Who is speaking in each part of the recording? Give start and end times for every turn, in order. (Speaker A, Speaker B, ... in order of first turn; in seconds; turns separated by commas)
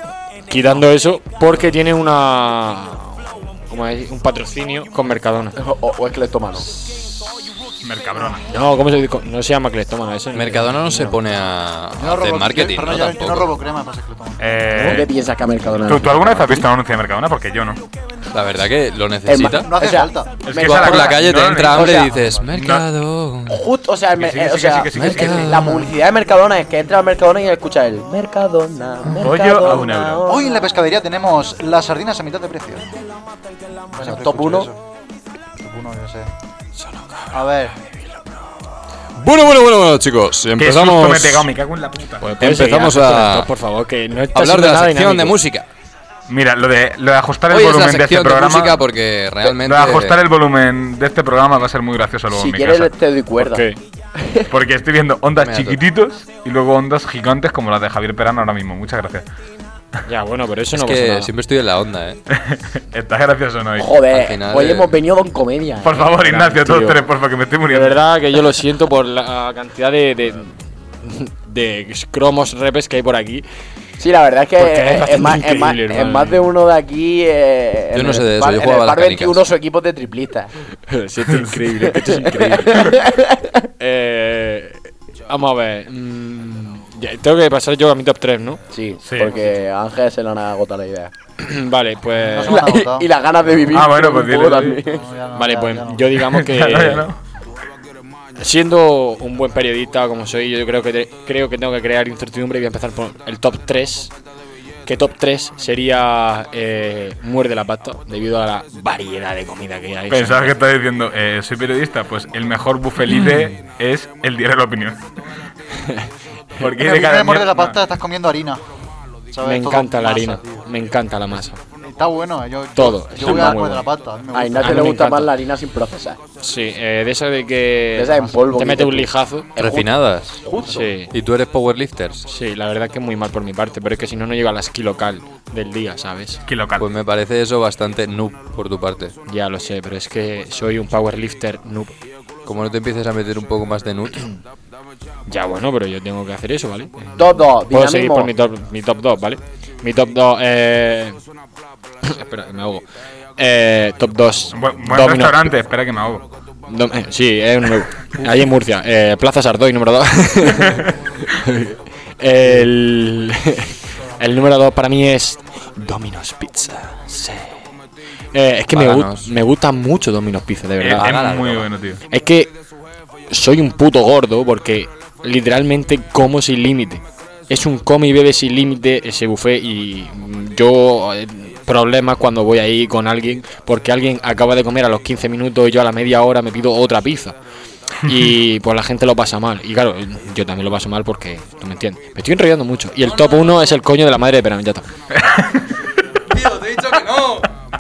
Speaker A: 0.5-5.6, Speaker B: 5.6-6.7, Speaker C: 7.8-8.5, Speaker A: 8.5-10.7, Speaker D: 10.3-13.5, Speaker B: 10.9-11.2, Speaker E: 12.0-14.8, Speaker C: 14.4-15.1, Speaker A: 14.7-15.0, Speaker B: 14.8-16.7, Speaker C: 15.8-17.8, Speaker D: 18.3-19.7, Speaker B: 19.2-22.1, Speaker E: 19.6-20.5, Speaker C: 20.4-22.8, Speaker D: 20.6-23.6, Speaker B: 23.5-30.7, Speaker C: 24.1-25.6, Speaker D: 24.9-25.9, Speaker C: 29.2-30.3, Speaker E: 30.2-32.9, Speaker E: 33.9-34.8, Speaker B: 33.9-34.7, Speaker E: 35.6-36.3, Speaker A: 36.8-38.5, Speaker E: 37.3-37.7, Speaker D: 39.2-41.5, Speaker C: 40.6-42.3, Speaker A: 42.2-45.4, Speaker D: 42.4-43.5, Speaker D: 44.3-45.6, Speaker C: 46.3-48.8, Speaker D: 47.5-50.2, Speaker C: 49.4-52.9, Speaker B: 52.3-54.5, Speaker A: 53.4-53.8, Speaker C: 54.5-59.2, Speaker D: 55.4-55.8, Speaker A: 60.1-61.3, Speaker D: 60.7-62.2, Speaker C: 62.3-63.9, Speaker B: 63.8-66.3, Speaker D: 64.1-64.9, Speaker C: 65.8-68.0, Speaker A: 66.2-67.0, Speaker A: 67.7-73.4, Speaker B: 74.0-80.5, Speaker A: 74.6-76.5, Speaker D: 77.9-79.4, Speaker A: 80.9-83.0, Speaker C: 81.3-81.6, Speaker B: 81.8-83.7, Speaker A: 83.8-88.6, Speaker B: 88.7-91.1, Speaker C: 89.0-89.4, Speaker A: 91.4-92.6, Speaker E: 92.2-93.1, Speaker B: 92.5-95.0, Speaker C: 93.7-94.8, Speaker E: 94.8-96.1, Speaker A: 95.3-97.1, Speaker C: 96.2-97.2, Speaker A: 98.4-104.1, Speaker A: 104.8-110.6, Speaker C: 110.1-115.0, Speaker A: 115.8-116.1, Speaker C: 116.6-117.8, Speaker E: 116.8-118.6, Speaker E: 119.3-120.7, Speaker A: 119.4-121.6, Speaker E: 121.8-124.9, Speaker A: 122.8-123.8, Speaker B: 123.2-123.5, Speaker B: 124.3-126.2, Speaker A: 124.6-125.3, Speaker A: 126.4-129.5, Speaker B: 127.9-130.9, Speaker D: 129.6-130.4, Speaker A: 130.7-131.1, Speaker D: 131.1-132.2, Speaker A: 132.3-136.4, Speaker C: 136.4-136.8, Speaker D: 136.8-139.1, Speaker A: 139.3-141.9, Speaker D: 142.4-144.2, Speaker A: 145.3-151.2, Speaker B: 147.2-148.3, Speaker A: 152.0-152.8, Speaker A: 153.4-155.5, Speaker C: 154.5-156.2, Speaker A: 156.7-167.6, Speaker C: 160.6-160.9, Speaker A: 168.3-171.1, Speaker D: 168.7-169.3, Speaker C: 170.8-172.0, Speaker D: 170.9-171.7, Speaker A: 172.1-172.5, Speaker A: 173.3-187.3, Speaker A: 188.0-194.9, Speaker D: 193.0-193.7, Speaker C: 195.1-195.7, Speaker D: 196.3-197.5